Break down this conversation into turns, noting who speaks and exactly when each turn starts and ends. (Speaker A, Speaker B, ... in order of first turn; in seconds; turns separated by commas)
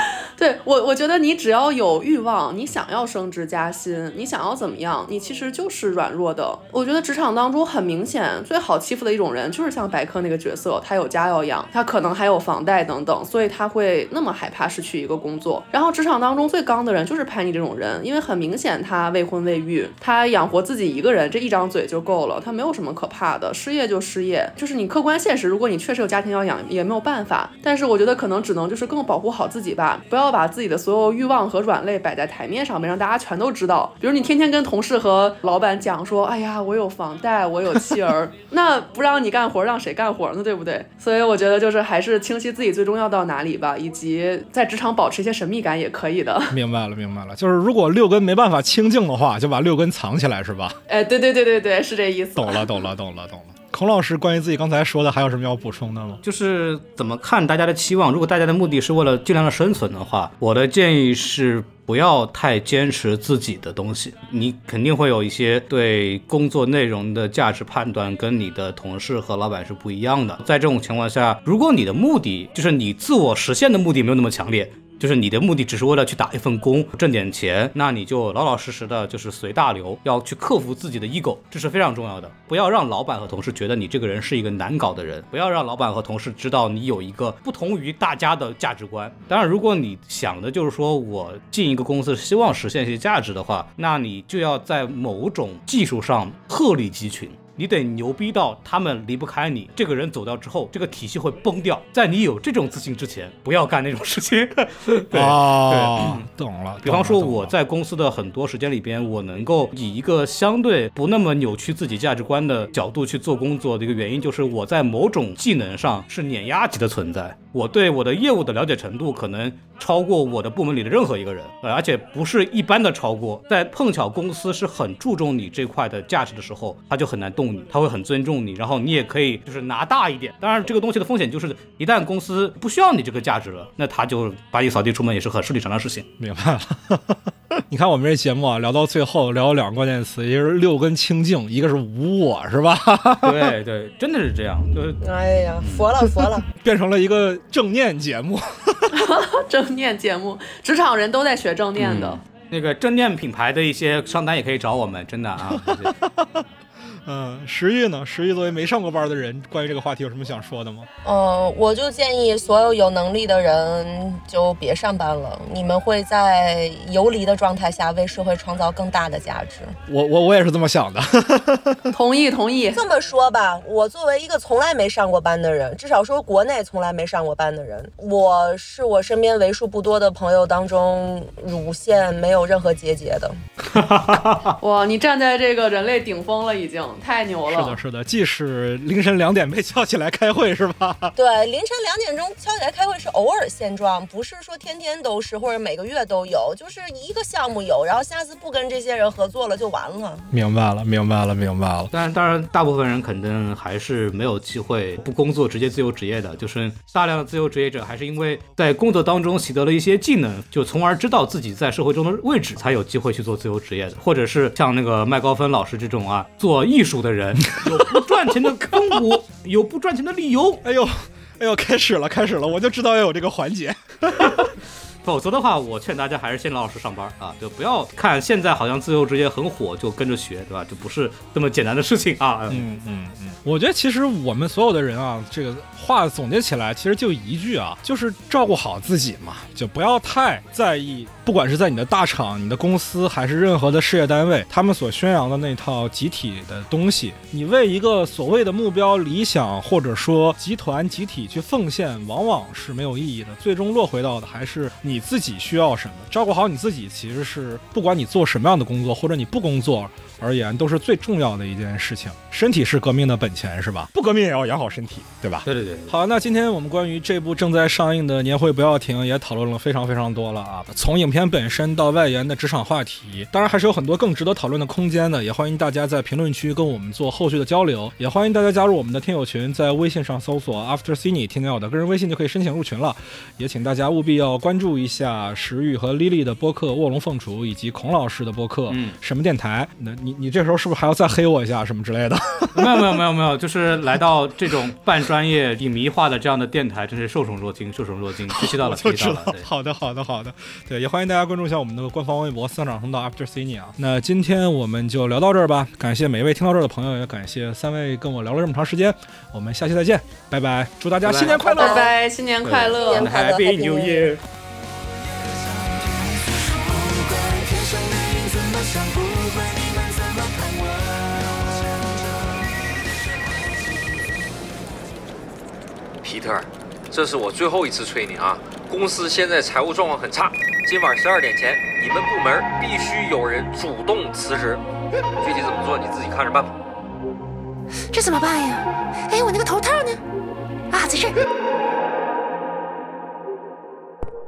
Speaker A: 0.4-46.5, Speaker B: 46.5-50.8, Speaker A: 50.9-52.8, Speaker B: 52.4-56.2, Speaker C: 56.2-106.2, Speaker B: 105.1-107.5, Speaker C: 106.8-136.1, Speaker B: 136.2-143.5, Speaker C: 143.2-145.0, Speaker D: 145.0-146.4, Speaker B: 146.6-149.0, Speaker A: 148.9-152.2, Speaker C: 151.8-155.9, Speaker B: 155.5-156.4, Speaker B: 157.0-160.9, Speaker D: 161.0-169.7, Speaker B: 169.9-171.8, Speaker A: 171.9-172.8, Speaker D: 172.7-183.3, Speaker C: 183.7-184.5, Speaker A: 184.6-187.8, Speaker B: 187.5-191.1, Speaker D: 191.2-200.3, Speaker B: 200.3-201.9, Speaker C: 201.9-220.6, Speaker B: 217.6-217.9, Speaker B: 220.6-224.5, Speaker C: 225.0-232.6, Speaker B: 232.5-292.8, Speaker C: 265.4-265.9, Speaker C: 288.7-289.0, Speaker C: 292.5-299.5, Speaker B: 298.3-311.9, Speaker C: 311.0-311.6, Speaker A: 311.4-313.1, Speaker D: 311.6-311.9, Speaker C: 312.4-314.2, Speaker D: 312.7-314.1, Speaker E: 317.0-318.9, Speaker E: 319.5-319.8, Speaker F: 326.0-334.6, Speaker F: 335.2-336.5, Speaker E: 337.9-340.0, Speaker E: 340.7-341.1